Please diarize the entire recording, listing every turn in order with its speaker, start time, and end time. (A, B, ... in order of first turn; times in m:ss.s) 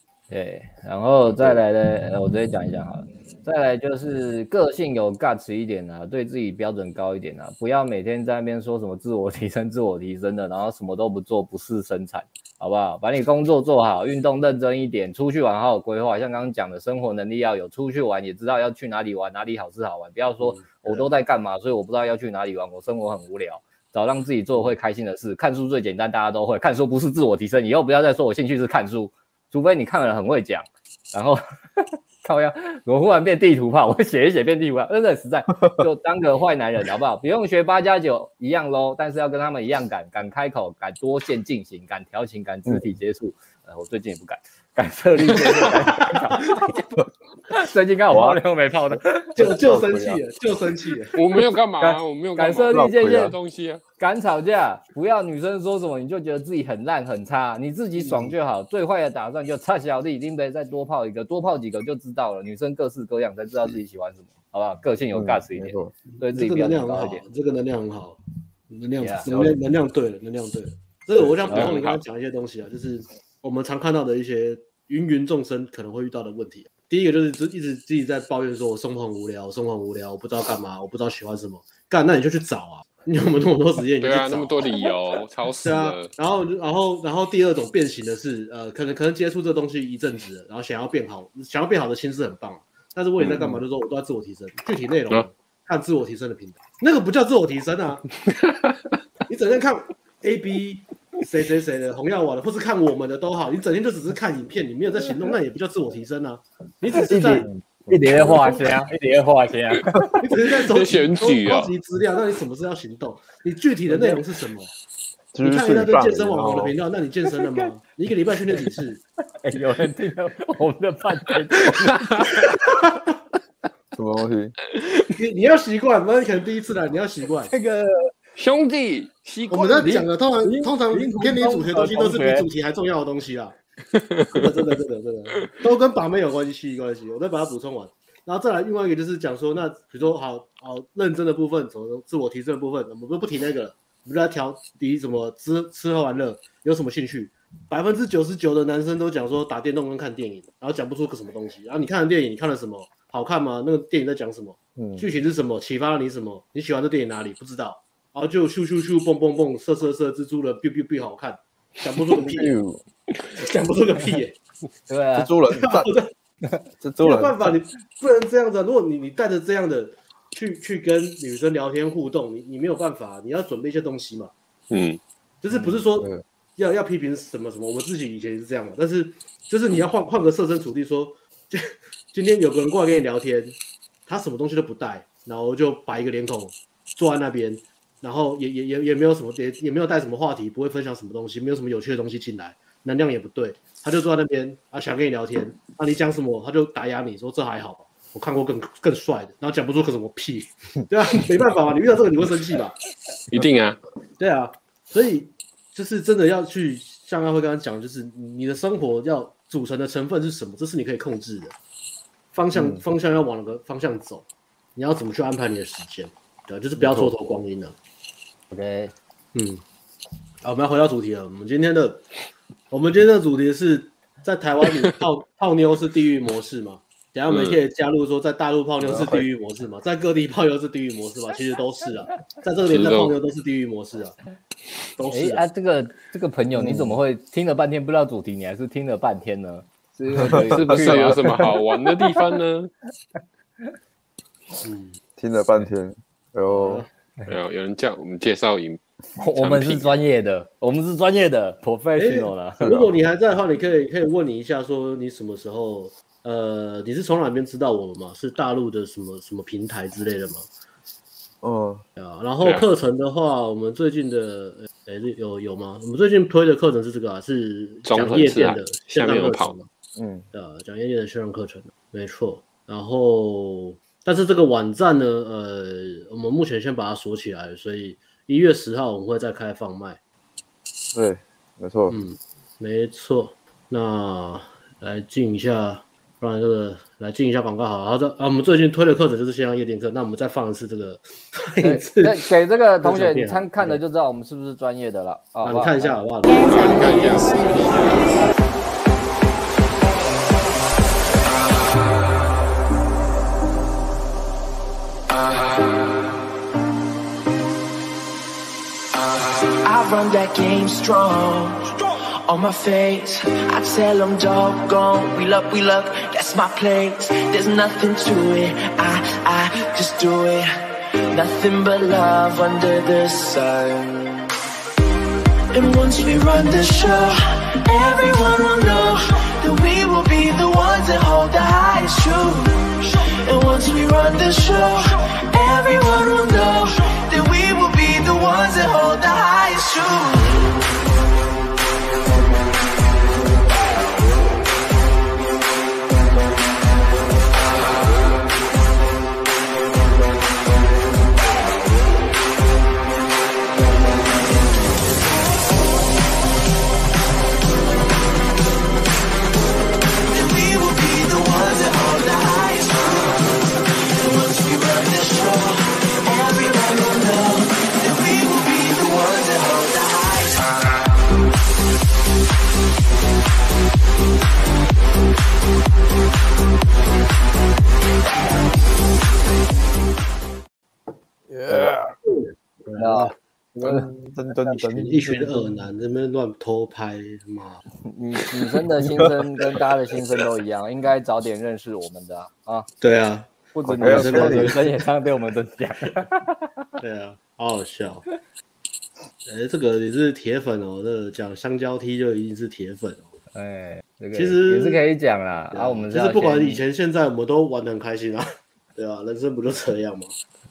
0:00.3-0:46.8 A
0:01.3-0:01.6 B
0:20.4-0:21.1 C
0:47.5-0:49.4 A
0:48.1-0:48.4 B
0:49.4-0:50.2 B
0:49.4-0:51.2 C
0:51.2-0:53.8 D
0:51.8-0:53.4 A
0:52.7-0:53.4 B
0:54.0-1:07.2 A
0:58.0-0:58.3 C
1:05.1-1:06.0 B
1:06.2-1:08.2 C
1:08.7-1:24.9 C
1:09.0-1:09.3 A
1:09.3-1:09.5 B
1:11.5-1:12.0 D
1:24.0-1:26.1 D
1:25.6-1:38.2 C
1:33.2-1:33.6 D
1:38.3-1:38.8 D
1:39.3-1:47.5 C
1:46.9-1:50.2 A
1:47.9-1:48.4 B
1:50.2-1:54.7 C
1:50.5-1:51.7 D
1:53.9-1:54.2 A
1:55.3-1:56.8 B
1:55.4-1:59.0 C
1:59.4-2:02.0 A
2:01.7-2:02.3 D
2:04.0-2:04.6 B
2:04.8-2:05.0 D
2:05.2-2:07.5 C
2:07.5-2:08.1 A
2:08.4-2:10.1 D
2:09.5-2:13.6 C
2:10.4-2:12.5 A
2:13.9-2:14.5 D
2:14.3-2:42.6 C
2:34.8-2:35.1 B
2:42.1-2:42.8 B
2:43.3-2:44.4 C
2:44.9-2:45.3 A
2:45.2-2:46.0 B
2:45.5-2:46.1 C
2:46.8-2:47.4 B
2:47.0-2:54.3 C
2:54.7-2:55.0 D
2:55.4-3:22.8 C
2:55.5-2:56.2 B
3:23.3-3:23.8 D
3:24.2-3:31.6 C
3:32.3-3:37.8 C
3:32.5-3:32.8 B
3:36.8-3:37.1 B
3:38.5-3:38.9 A
3:39.3-3:39.6 C
3:40.4-3:42.1 C
3:42.7-3:54.2 C
3:47.3-3:47.6 D
3:48.8-3:49.3 B
3:52.7-3:53.2 D
3:55.0-3:55.4 C
3:55.1-4:01.5 A
3:56.6-3:57.0 B
4:00.2-4:01.2 B
4:00.5-4:02.7 D
4:04.6-4:05.0 C
4:05.2-4:06.8 B
4:06.5-4:06.9 C
4:07.3-4:08.8 D
4:09.2-4:12.7 A
4:09.4-4:10.0 D
4:12.0-4:20.5 C
4:12.6-4:12.9 B
4:21.4-4:21.8 B
4:22.0-4:29.7 C
4:22.4-4:22.7 D
4:27.9-4:29.6 D
4:30.0-4:30.3 B
4:30.3-4:40.0 C
4:40.9-4:42.0 B
4:41.9-4:52.3 C
4:51.6-4:56.0 A
4:52.8-4:53.8 C
4:55.4-4:57.1 C
4:56.4-4:58.0 D
5:09.6-5:20.5 E
5:21.1-5:24.2 E
5:25.5-5:40.5 E
6:00.1-6:10.5 E
6:21.3-6:21.9 B
6:22.0-6:23.1 C
6:22.8-6:23.9 A
6:23.6-6:25.5 B
6:24.5-6:27.6 C
6:27.8-6:32.7 A
6:32.8-6:34.7 C
6:33.5-6:36.7 A
6:33.7-6:34.6 B
6:36.8-6:38.0 C
6:39.3-6:43.1 C
6:43.3-6:46.6 A
6:44.1-6:44.8 C
6:45.5-6:50.1 C